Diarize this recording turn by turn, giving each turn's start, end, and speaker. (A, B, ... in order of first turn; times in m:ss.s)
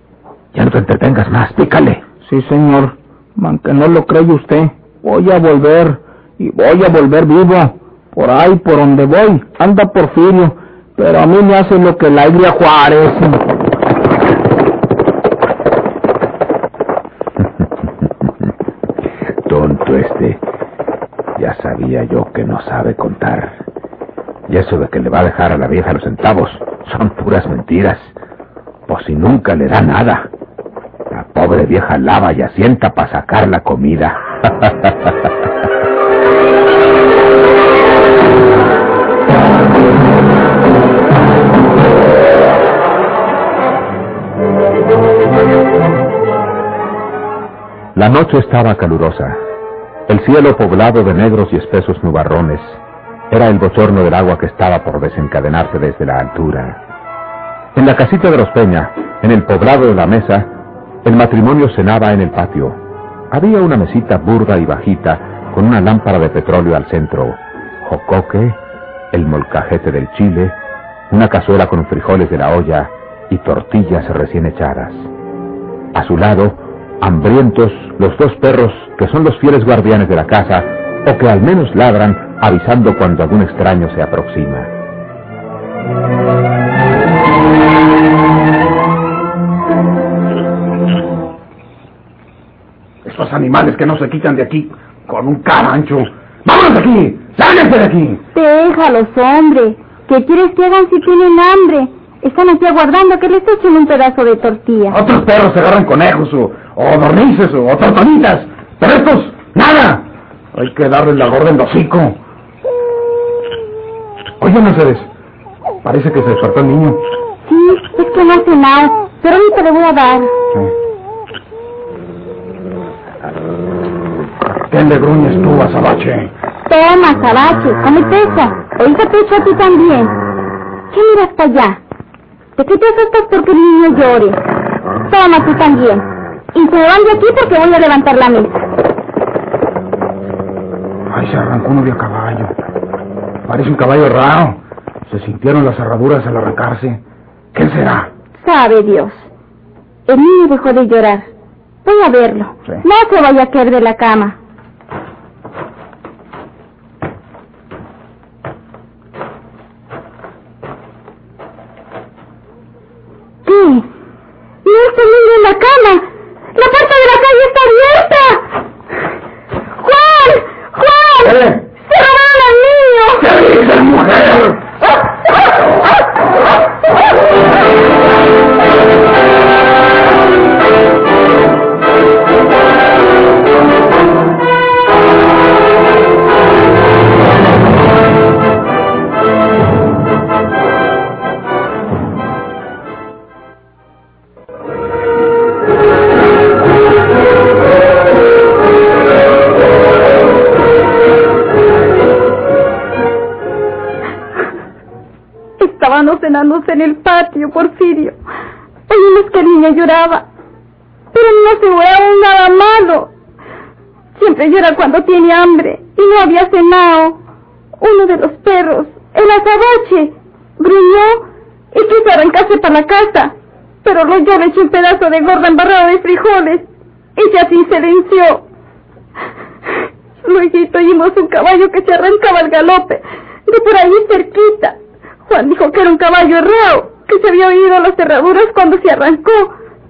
0:00.5-0:02.0 A
0:02.2-0:13.4 B
0:19.4-0:20.4 A
0:21.4-0:23.6 A
0:24.5-0:28.1 A
0:28.9-0:30.3 A
0:31.1-0:34.9 A
0:47.9-0:49.4 A
0:50.1-0:56.8 A
0:57.7-1:02.8 A
1:03.3-1:08.6 A
1:09.1-1:10.6 A
1:11.1-1:15.1 A
1:15.9-1:24.7 A
1:33.0-1:38.2 C
1:38.3-1:45.0 D
1:44.9-1:52.2 C
1:54.4-1:55.1 C
1:55.8-1:57.0 C
1:57.4-2:00.3 D
2:04.7-2:06.3 C
2:06.7-2:10.1 D
2:10.9-2:11.8 D
2:12.6-2:14.4 D
2:15.1-2:18.6 D
2:21.1-2:22.5 C
2:23.4-2:27.0 C
2:27.5-2:28.1 C
2:28.4-2:29.3 D
2:30.1-2:31.3 D
2:31.8-2:34.4 D
2:43.4-2:43.9 D
2:44.6-2:48.4 D
2:49.8-2:53.3 D
2:51.2-2:51.6 C
2:53.2-2:54.6 C
3:25.6-3:28.2 D
3:28.9-3:30.3 D
3:31.1-3:33.1 D
3:34.2-3:37.2 D
3:37.8-3:48.4 D
3:50.2-3:54.8 D
3:55.3-3:59.5 D